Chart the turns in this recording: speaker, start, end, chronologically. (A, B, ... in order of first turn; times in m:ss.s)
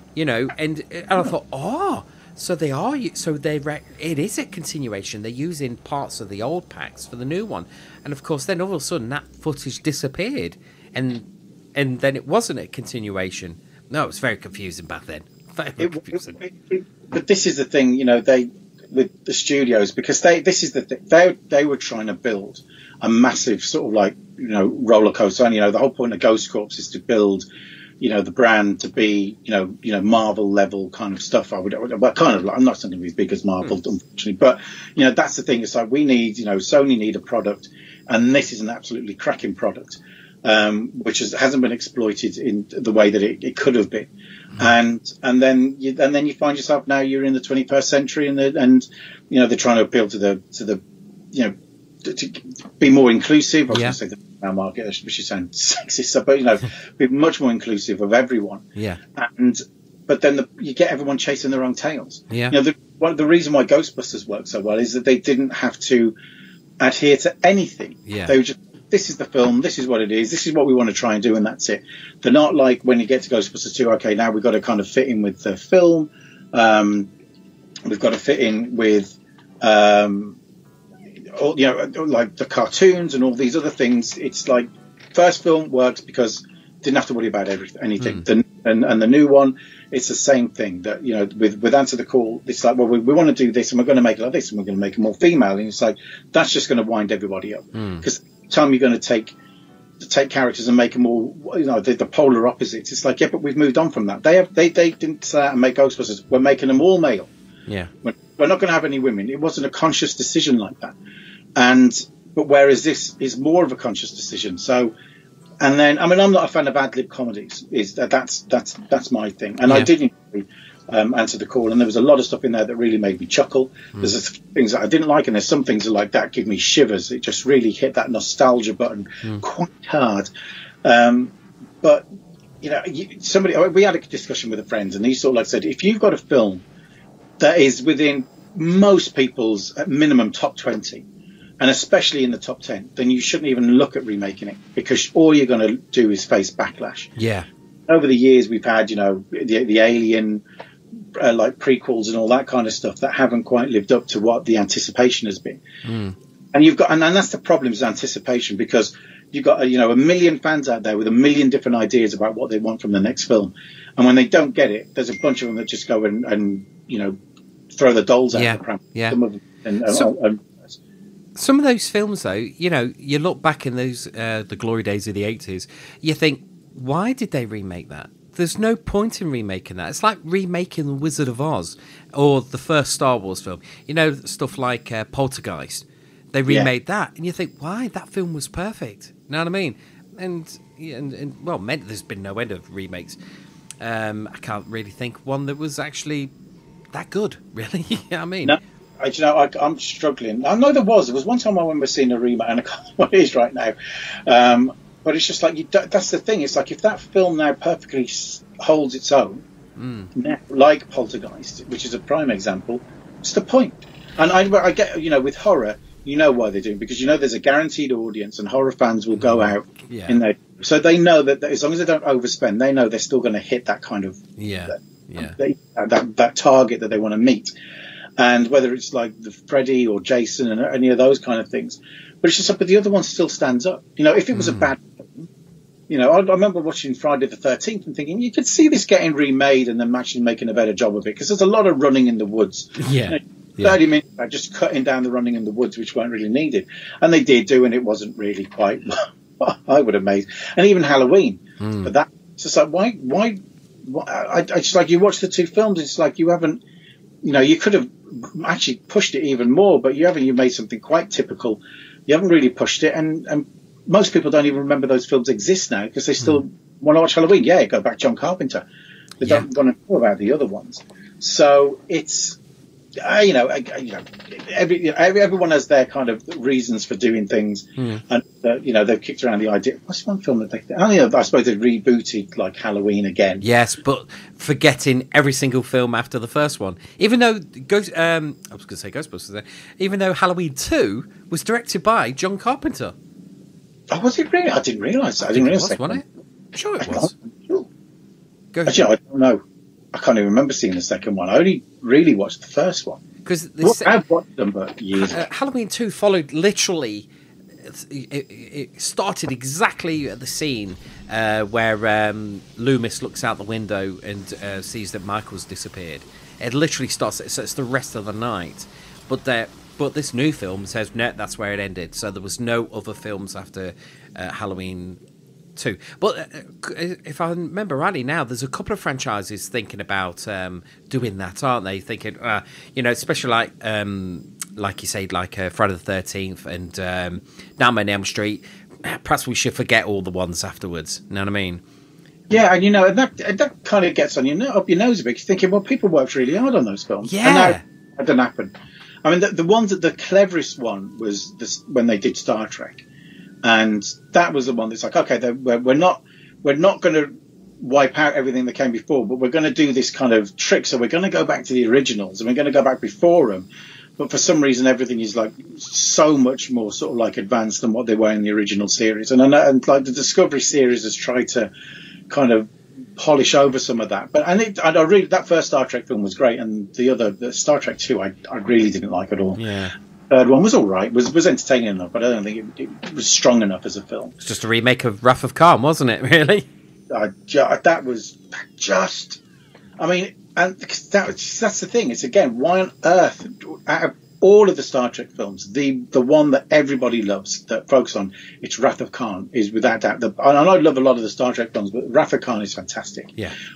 0:00.2-0:16.4 A
0:15.8-0:27.4 B
0:28.0-0:58.6 B
0:53.7-0:54.0 A
0:58.8-0:59.0 A
0:59.2-1:06.2 B
1:02.3-1:02.6 A
1:06.8-1:17.1 B
1:08.1-1:08.3 A
1:17.8-1:20.4 B
1:21.3-1:39.3 B
1:28.0-1:28.2 A
1:37.7-1:38.0 A
1:40.0-1:47.3 B
1:48.0-1:50.9 B
1:51.6-1:54.9 B
1:55.6-2:10.3 B
1:59.7-1:59.9 A
2:10.8-2:12.0 B
2:12.6-2:16.6 B
2:17.4-2:21.0 B
2:21.6-2:27.1 B
2:27.2-2:27.5 A
2:27.9-2:30.4 B
2:31.2-2:35.6 B
2:35.8-2:36.2 A
2:36.5-2:47.2 B
2:47.7-2:50.8 B
2:48.3-2:49.2 A
2:49.9-2:50.1 A
2:51.4-3:13.2 A
3:13.8-3:16.3 A
3:16.9-3:18.6 A
3:18.4-3:23.8 B
3:24.3-3:29.4 B
3:29.8-3:30.1 A
3:30.1-3:47.5 B
3:39.1-3:40.2 A
3:44.4-3:45.4 A
3:48.2-3:55.3 B
3:54.3-3:54.7 A
3:55.9-4:16.6 B
4:02.8-4:03.8 A
4:11.6-4:11.9 A
4:17.2-4:28.7 B
4:29.2-4:32.4 B
4:33.0-4:43.4 B
4:37.8-4:38.0 A
4:43.4-4:52.9 A
4:53.9-4:56.0 B
4:55.3-4:57.1 A
4:56.8-4:57.7 B
4:58.5-4:58.8 A
4:58.6-4:59.4 B
4:59.9-5:03.0 B
5:03.2-5:03.9 A
5:03.6-5:05.2 B
5:04.9-5:07.1 A
5:07.6-5:25.0 A
5:25.6-5:41.6 A
5:42.3-5:48.5 B
5:47.0-5:47.6 A
5:49.0-5:52.8 B
5:53.4-6:11.5 B
6:12.1-6:19.4 B
6:19.4-6:19.7 A
6:20.1-6:24.1 B
6:24.2-6:26.5 A
6:26.9-6:29.2 B
6:29.8-6:43.1 B